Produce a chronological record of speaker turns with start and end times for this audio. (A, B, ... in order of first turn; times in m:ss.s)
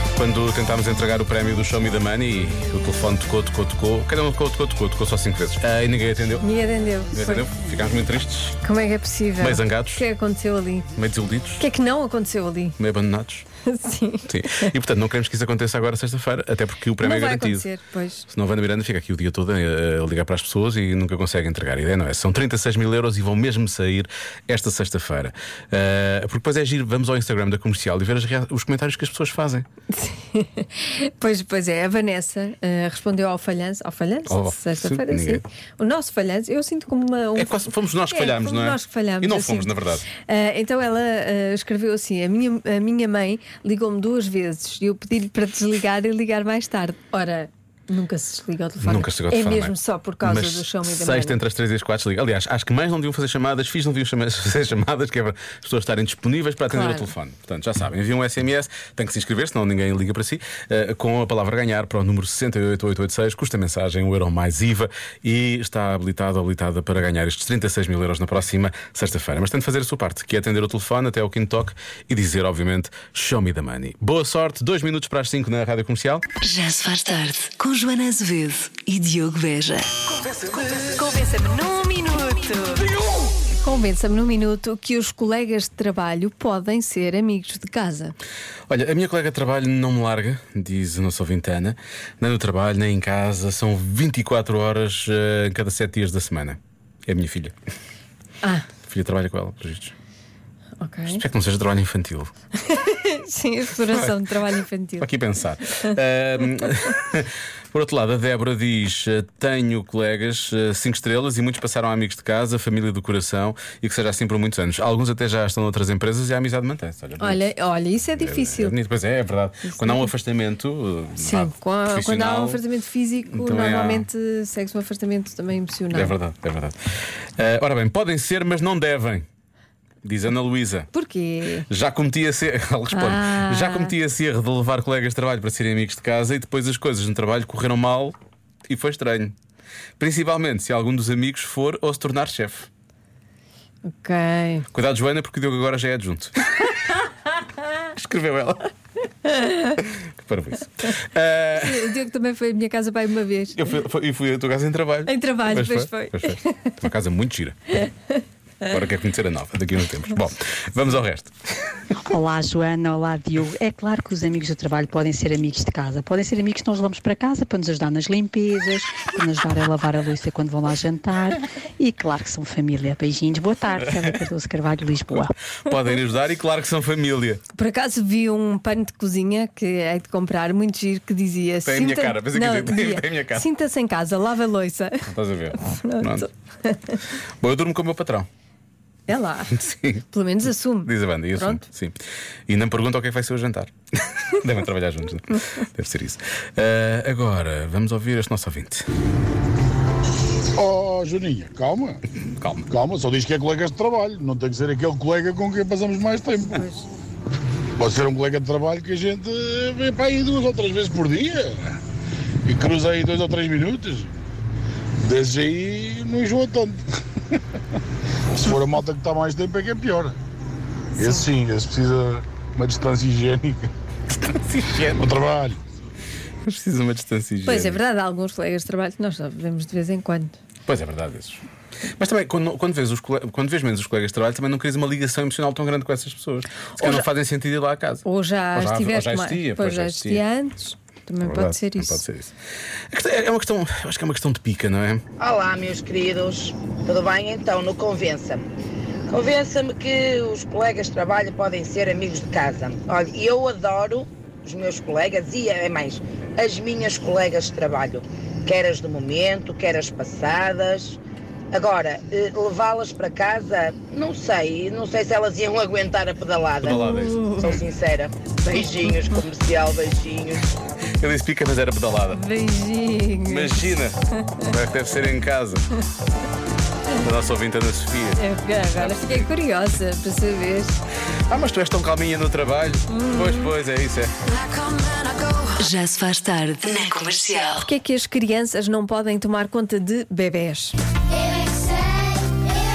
0:00.2-0:06.4 A
0:06.4-0:07.5 B
0:07.1-0:08.6 A
0:08.6-0:10.9 B
0:09.4-0:10.0 A
0:10.9-0:11.6 A
0:11.6-0:12.8 B
0:12.8-0:13.5 A
0:13.6-0:14.7 B
0:14.3-0:17.7 A
0:17.0-0:18.3 B
0:18.3-0:29.7 A
0:29.9-0:51.4 B
0:34.3-0:35.4 A
0:37.3-0:40.1 A
0:48.8-1:16.2 A
0:56.7-0:57.1 B
1:16.4-1:19.9 C
1:20.7-1:22.9 B
1:23.6-1:28.1 B
1:28.7-1:37.5 A
1:38.8-1:39.9 A
1:40.8-1:41.2 B
1:41.1-1:42.3 A
1:42.6-1:45.1 B
1:45.0-1:57.5 A
1:57.2-1:58.8 B
1:58.2-2:02.6 A
1:59.7-2:00.1 B
2:01.2-2:06.1 B
2:03.3-2:04.0 A
2:05.9-2:06.8 A
2:07.4-2:09.2 A
2:10.0-2:10.9 A
2:10.9-2:11.7 B
2:11.7-2:18.2 A
2:12.9-2:13.9 B
2:18.7-2:19.4 A
2:20.0-2:22.7 A
2:23.9-2:24.7 B
2:24.7-2:26.7 A
2:27.9-2:28.7 A
2:29.8-2:31.9 A
2:31.5-2:33.6 B
2:33.6-2:37.8 A
2:35.1-2:36.7 B
2:37.8-2:38.2 B
2:38.6-2:41.3 A
2:42.1-2:55.4 D
2:55.6-2:57.4 A
2:57.6-3:07.0 B
3:01.6-3:03.5 A
3:05.1-3:06.3 A
3:07.4-3:08.3 A
3:09.1-3:11.6 B
3:09.5-3:10.0 A
3:10.8-3:13.7 A
3:14.2-3:18.9 A
3:20.6-3:22.0 E
3:22.2-3:22.7 A
3:22.7-3:26.6 E
3:26.5-3:26.9 B
3:27.8-3:31.8 E
3:32.4-3:34.1 E
3:35.0-3:36.8 E
3:38.3-3:40.2 E
3:41.0-3:43.7 E
3:44.3-3:45.0 A
3:44.9-3:45.6 E
3:46.4-3:47.8 A
3:47.4-3:50.4 B
3:50.7-3:51.4 A
3:52.0-4:00.2 A
3:56.8-3:57.1 B
3:58.0-4:02.0 B
4:01.2-4:02.3 A
4:02.9-4:05.0 A
4:05.2-4:08.4 F
4:09.1-4:21.0 F
4:21.5-4:26.8 F
4:26.6-4:27.6 A
4:26.7-4:27.6 B
4:27.4-4:30.4 F
4:31.0-4:32.2 A
4:32.1-4:34.4 B
4:33.3-4:35.7 A
4:36.9-4:38.2 A
4:38.2-4:40.8 B
4:38.8-4:39.3 A
4:41.3-4:44.1 A
4:42.9-4:43.5 B
4:45.5-4:47.4 C
4:47.6-4:50.8 B